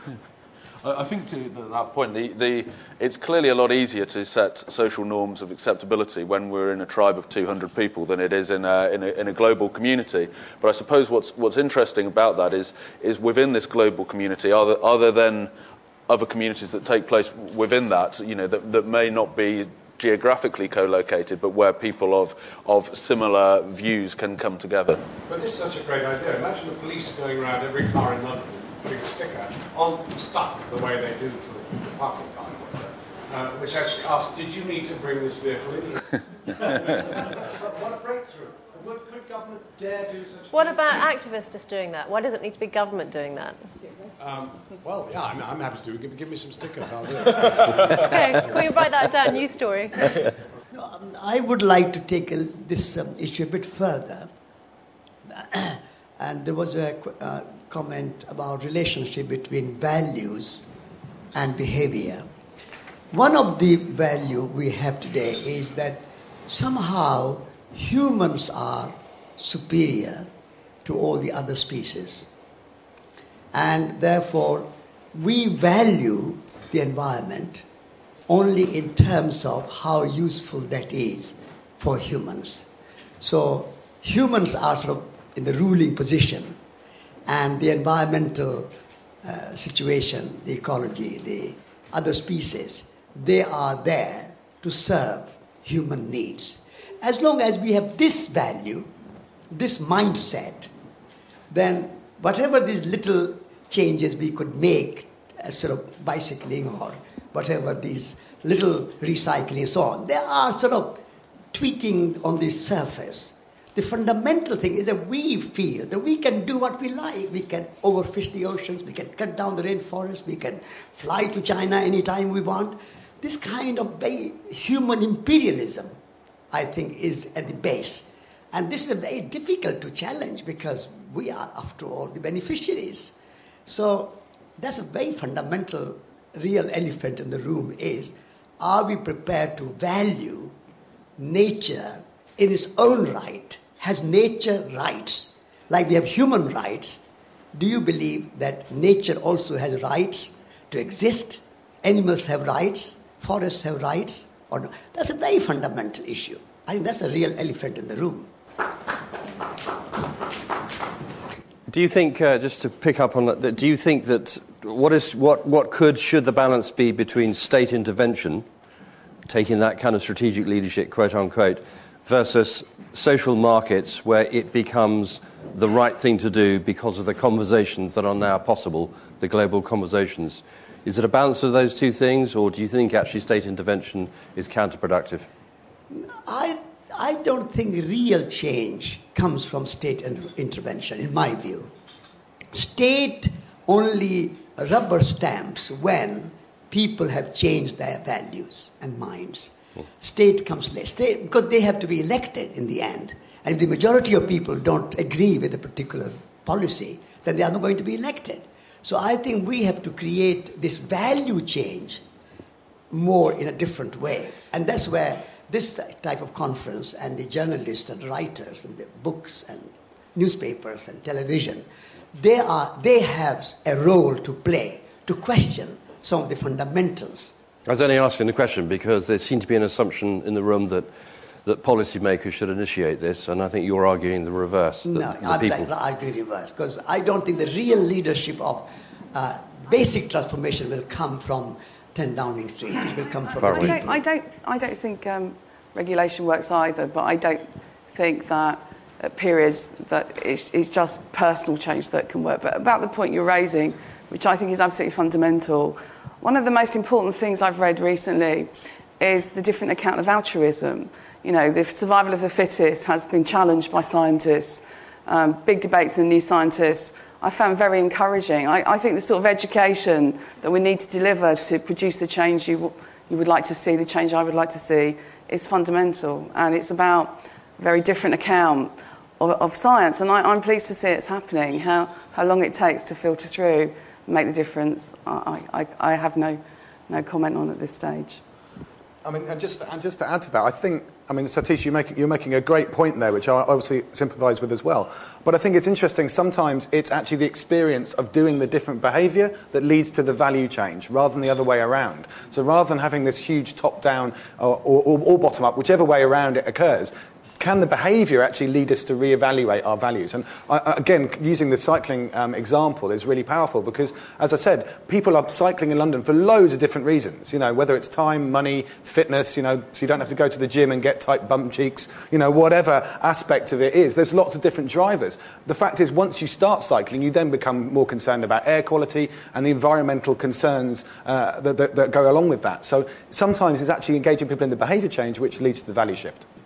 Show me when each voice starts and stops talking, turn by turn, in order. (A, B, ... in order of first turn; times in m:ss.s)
0:00.8-0:15.5 A
0:16.1-0:25.0 A
0:25.3-0:40.9 B
0:40.5-0:43.6 C
0:44.2-0:48.7 B
0:48.0-0:50.1 C
0:50.7-0:54.3 D
0:55.3-1:00.7 D
1:01.4-1:02.3 D
1:03.1-1:10.3 D
1:10.8-1:12.3 D
1:13.5-1:17.6 D
1:18.3-1:22.7 D
1:23.2-1:26.6 D
1:27.3-1:28.7 D
1:29.2-1:38.9 D
1:39.5-1:40.7 D
1:41.5-1:51.0 D
1:51.5-2:06.0 D
2:06.5-2:13.1 D
2:13.7-2:20.6 D
2:21.2-2:38.3 D
2:41.7-2:48.5 E
2:49.3-3:05.3 E
3:05.9-3:11.7 D
3:12.5-3:32.0 D
3:32.9-3:47.3 D
3:47.7-3:50.9 E
3:51.4-3:55.7 E
3:54.8-4:04.0 D
4:03.3-4:48.2 F
4:03.4-4:03.9 E
4:49.0-5:36.2 G